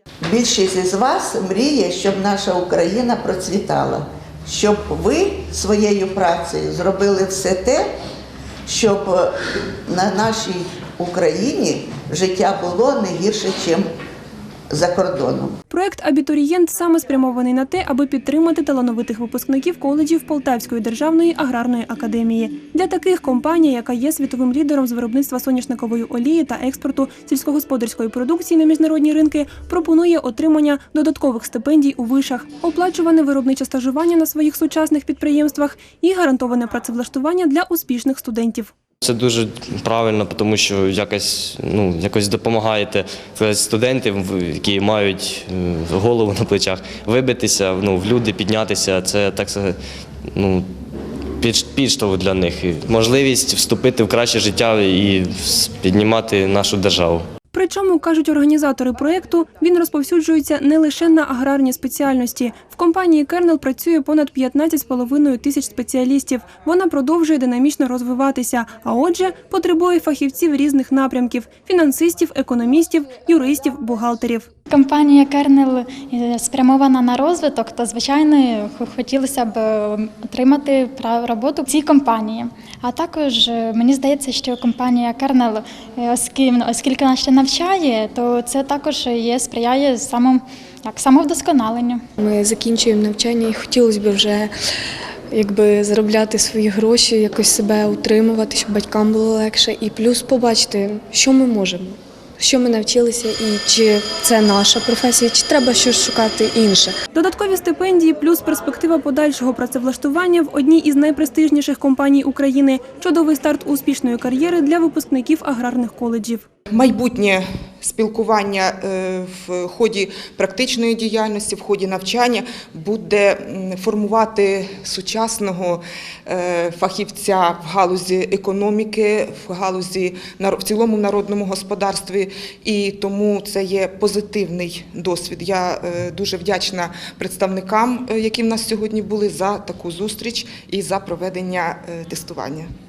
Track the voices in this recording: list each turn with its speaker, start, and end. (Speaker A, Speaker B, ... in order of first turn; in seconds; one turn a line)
Speaker A: 0.2-7.9
Speaker A: 8.7-9.3
Speaker A: 9.9-13.9
Speaker A: 14.7-15.5
Speaker B: 15.7-38.7
Speaker C: 39.0-49.8
Speaker C: 50.4-50.7
Speaker C: 51.4-57.3
Speaker B: 57.5-74.5
Speaker D: 74.7-92.0
Speaker E: 92.2-94.5
Speaker E: 95.3-107.0
Speaker B: 107.1-116.5
Speaker F: 116.7-142.7